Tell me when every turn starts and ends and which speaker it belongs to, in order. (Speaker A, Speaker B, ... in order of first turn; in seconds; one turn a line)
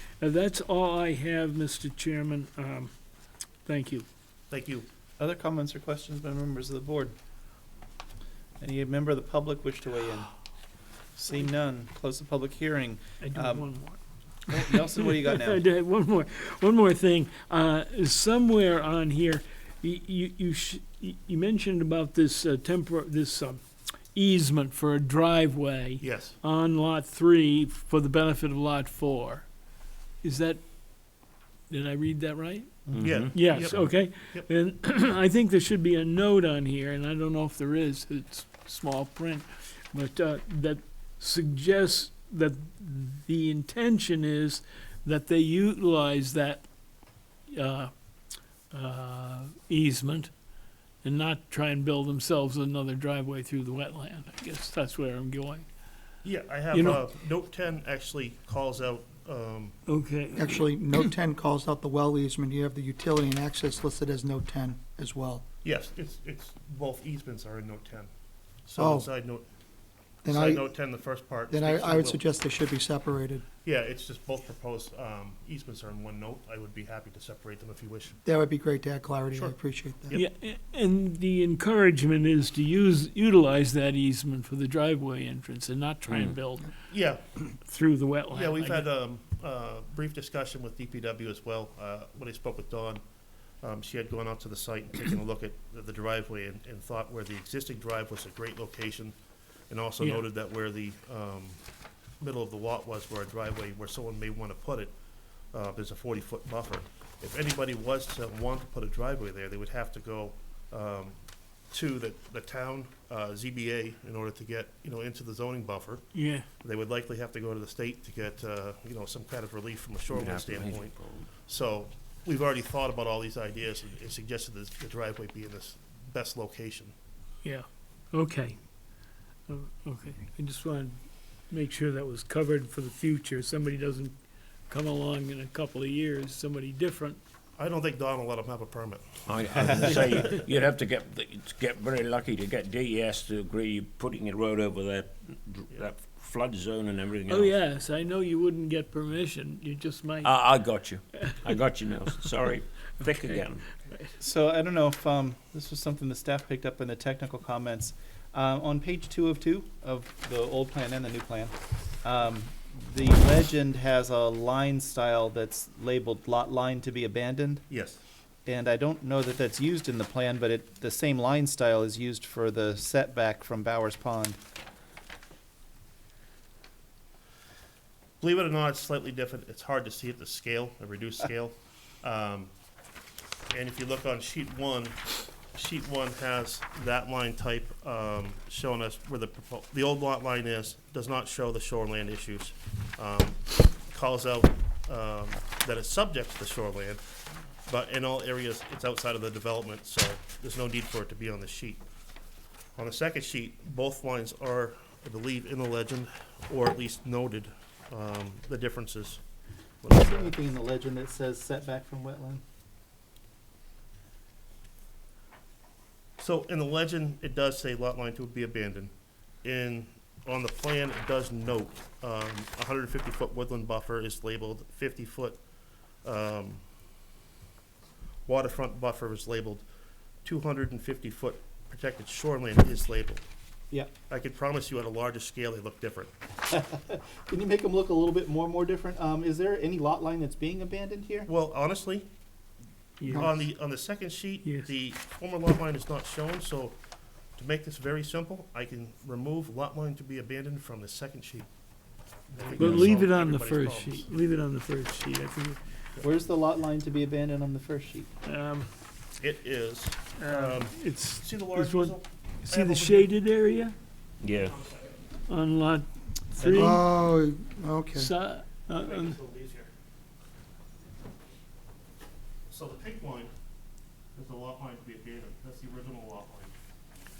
Speaker A: 0.2-2.9
Speaker A: 3.6-4.1
Speaker B: 4.5-4.9
Speaker C: 5.2-7.1
Speaker C: 8.6-10.3
Speaker C: 11.2-13.7
Speaker A: 13.2-29.5
Speaker C: 14.5-15.6
Speaker B: 26.0-26.3
Speaker A: 30.2-30.6
Speaker A: 31.7-46.6
Speaker D: 33.0-33.9
Speaker B: 33.0-34.5
Speaker A: 47.5-47.9
Speaker A: 48.7-50.3
Speaker A: 51.0-55.7
Speaker B: 56.2-59.8
Speaker A: 56.7-57.1
Speaker A: 59.9-60.7
Speaker E: 60.3-65.4
Speaker B: 65.6-68.1
Speaker B: 68.7-69.5
Speaker E: 68.8-69.1
Speaker E: 70.2-70.7
Speaker B: 70.2-72.2
Speaker E: 71.5-73.5
Speaker B: 73.6-78.2
Speaker E: 78.2-80.2
Speaker B: 79.3-79.6
Speaker A: 80.1-86.7
Speaker D: 86.1-86.4
Speaker B: 86.9-87.2
Speaker A: 87.6-88.8
Speaker B: 88.3-93.0
Speaker B: 93.6-99.2
Speaker B: 99.7-101.6
Speaker A: 100.0-100.2
Speaker B: 102.2-104.9
Speaker B: 105.5-111.2
Speaker B: 111.7-126.9
Speaker A: 116.1-116.5
Speaker D: 120.1-121.3
Speaker A: 127.4-128.6
Speaker A: 129.5-134.2
Speaker A: 134.7-137.2
Speaker B: 137.6-139.1
Speaker D: 139.3-147.6
Speaker B: 139.9-140.4
Speaker A: 147.3-150.6
Speaker D: 150.2-153.7
Speaker A: 153.2-154.1
Speaker C: 154.2-167.6
Speaker B: 167.7-168.0
Speaker C: 168.4-174.4
Speaker B: 178.2-182.5
Speaker B: 183.5-197.0
Speaker B: 197.7-201.8
Speaker B: 202.8-209.2
Speaker B: 209.8-210.4
Speaker C: 209.9-212.4
Speaker B: 216.2-218.9
Speaker B: 219.4-225.4
Speaker B: 226.0-226.6
Speaker B: 228.2-229.6
Speaker B: 230.2-233.2
Speaker B: 234.1-236.1
Speaker C: 236.5-241.3
Speaker B: 241.3-242.1
Speaker A: 243.0-243.3
Speaker B: 243.1-246.8
Speaker E: 243.1-243.4
Speaker A: 244.4-244.7
Speaker B: 247.4-251.5
Speaker B: 252.3-254.1
Speaker A: 252.6-255.6
Speaker C: 256.0-258.1
Speaker A: 258.2-258.7
Speaker B: 259.2-263.1
Speaker A: 260.2-263.8
Speaker D: 264.2-264.6
Speaker B: 264.4-265.0
Speaker A: 265.3-266.8
Speaker C: 266.4-266.8
Speaker E: 266.5-268.1
Speaker A: 267.9-269.2
Speaker B: 268.8-269.7
Speaker B: 272.5-273.3
Speaker B: 274.1-276.5